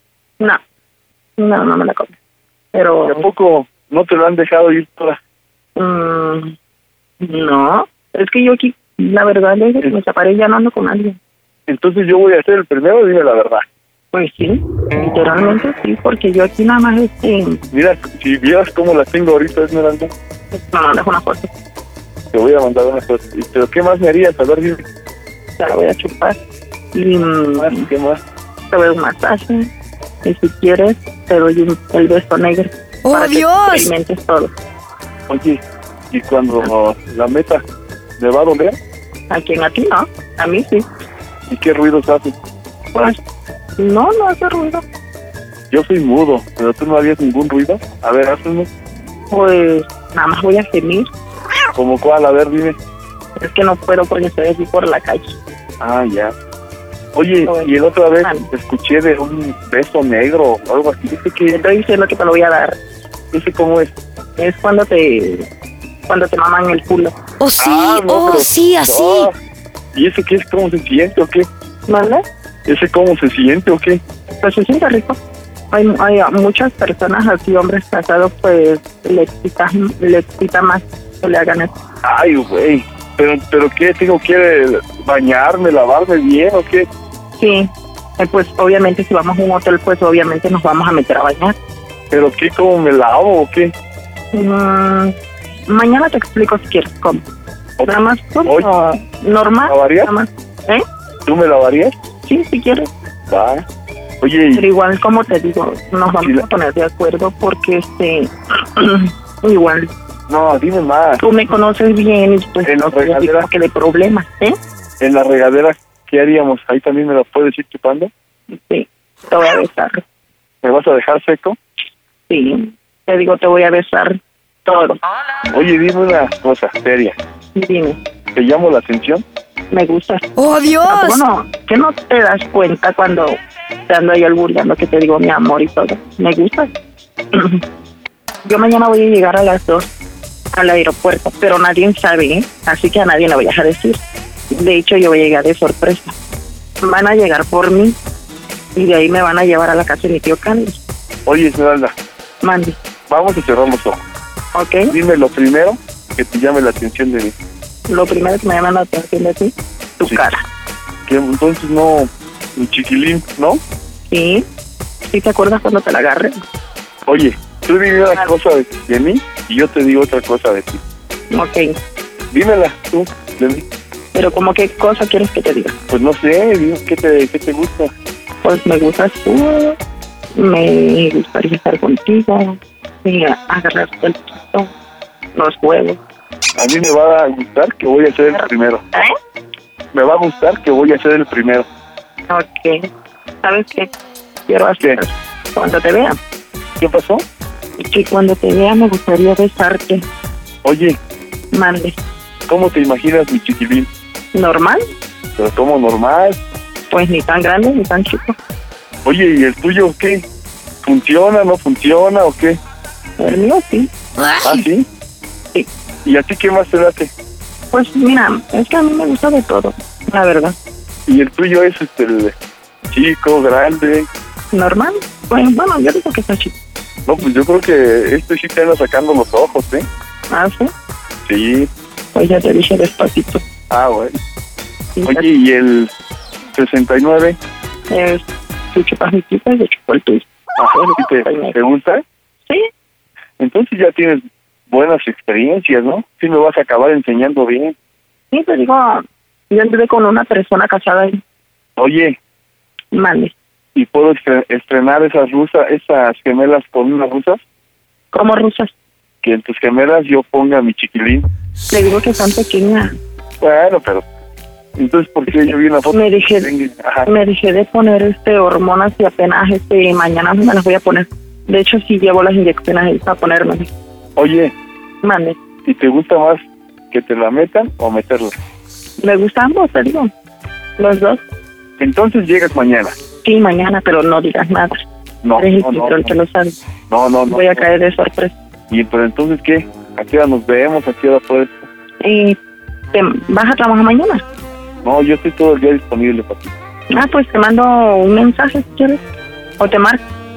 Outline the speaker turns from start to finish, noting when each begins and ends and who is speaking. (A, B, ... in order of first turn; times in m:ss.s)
0:01.4-0:02.1 A
0:02.7-0:03.2 A
0:03.0-0:05.2 B
0:05.8-0:06.5 A
0:07.2-0:11.2 A
0:11.7-0:13.6 B
0:14.1-0:17.6 A
0:17.7-0:20.1 B
0:20.5-0:21.5 A
0:22.3-0:24.8 B
0:25.6-0:26.4 A
0:26.9-0:27.9 A
0:27.6-0:28.2 B
0:28.7-0:29.7 A
0:30.2-0:34.5 A
0:33.0-0:33.9 C
0:35.3-0:37.6 B
0:38.2-0:38.8 B
0:39.3-0:40.9 A
0:41.5-0:42.3 B
0:42.9-0:43.2 A
0:43.8-0:44.8 A
0:45.7-0:48.7 B
0:49.3-0:51.1 A
0:51.8-0:52.8 B
0:53.4-0:55.4 A
0:55.8-0:56.3 B
0:57.1-1:01.6 B
0:58.2-0:58.5 A
1:01.5-1:02.8 A
1:03.3-1:03.9 B
1:04.4-1:05.5 A
1:06.1-1:07.1 A
1:07.4-1:09.3 C
1:07.6-1:09.3 B
1:09.9-1:11.5 B
1:11.9-1:12.2 A
1:12.6-1:14.0 B
1:14.4-1:15.2 A
1:15.7-1:21.7 A
1:22.0-1:26.9 B
1:27.4-1:31.5 A
1:32.1-1:33.7 B
1:34.3-1:35.1 A
1:35.7-1:37.2 A
1:37.8-1:38.7 B
1:37.8-1:40.8 A
1:39.6-1:40.1 B
1:41.2-1:41.9 B
1:42.2-1:42.9 A
1:43.3-1:43.6 B
1:44.2-1:44.7 B
1:44.5-1:49.9 A
1:46.2-1:46.4 B
1:50.3-1:51.2 B
1:51.2-1:54.6 A
1:52.6-1:53.5 B
1:55.0-1:58.1 B
1:58.5-2:00.0 A
2:00.6-2:01.6 B
2:02.3-2:05.0 A
2:05.5-2:07.2 B
2:07.5-2:08.0 A
2:08.3-2:09.2 B
2:09.7-2:10.2 A
2:10.4-2:11.2 C
2:10.9-2:16.7 A
2:17.3-2:17.6 A
2:18.4-2:19.9 A
2:20.5-2:26.1 A
2:26.8-2:28.0 A
2:28.7-2:30.8 A
2:31.2-2:31.9 B
2:32.4-2:32.8 A
2:33.1-2:34.0 B
2:34.5-2:34.9 A
2:34.9-2:37.3 B
2:37.9-2:40.4 A
2:41.1-2:43.6 B
2:44.1-2:44.4 A
2:45.0-2:46.4 A
2:47.1-2:50.8 B
2:51.3-2:51.8 A
2:52.3-2:53.6 B
2:54.1-2:55.7 A
2:55.9-2:57.9 B
2:58.4-2:59.8 A
3:00.3-3:04.7 A
3:05.3-3:06.0 A
3:06.6-3:08.8 B
3:08.3-3:09.1 A
3:09.9-3:11.7 B
3:12.3-3:12.9 A
3:13.4-3:13.9 A
3:14.5-3:16.2 A
3:16.8-3:17.2 B
3:17.8-3:20.0 A
3:20.6-3:21.0 B
3:21.5-3:22.0 A
3:22.5-3:23.9 B
3:24.3-3:24.8 A
3:25.4-3:26.4 B
3:26.9-3:28.4 A
3:29.0-3:30.2 B
3:30.8-3:32.6 B
3:33.2-3:33.9 A
3:34.4-3:34.8 B
3:36.0-3:37.1 B
3:37.7-3:40.6 A
3:41.1-3:42.3 B
3:42.9-3:44.1 B
3:44.5-3:46.5 A
3:47.1-3:49.8 B
3:50.3-3:50.7 A
3:51.2-3:51.7 B
3:52.1-3:53.4 A
3:53.7-3:54.2 B
3:55.0-3:55.3 A
3:55.0-3:55.9 B
3:56.5-3:57.4 B
3:57.9-4:01.6 A
4:00.6-4:02.0 B
4:03.4-4:07.7 B
4:08.3-4:11.2 A
4:11.8-4:12.2 B
4:12.9-4:13.3 A
4:13.8-4:17.4 B
4:18.1-4:18.7 A
4:19.2-4:21.2 B
4:21.7-4:23.0 A
4:23.4-4:24.0 B
4:24.8-4:27.1 B
4:25.9-4:26.5 A
4:27.0-4:33.7 A
4:34.2-4:34.5 B
4:35.0-4:35.4 A
4:35.6-4:38.3 B
4:39.0-4:40.1 A
4:40.8-4:41.2 A
4:41.8-4:43.0 B
4:43.2-4:44.8 A
4:45.2-4:46.2 B
4:45.4-4:46.6 A
4:46.9-4:47.6 B
4:47.3-4:48.3 A
4:48.7-4:51.7 B
4:52.0-4:52.4 A
4:52.9-4:54.2 A
4:54.8-4:56.5 B
4:56.9-4:59.0 A
4:59.6-5:00.0 A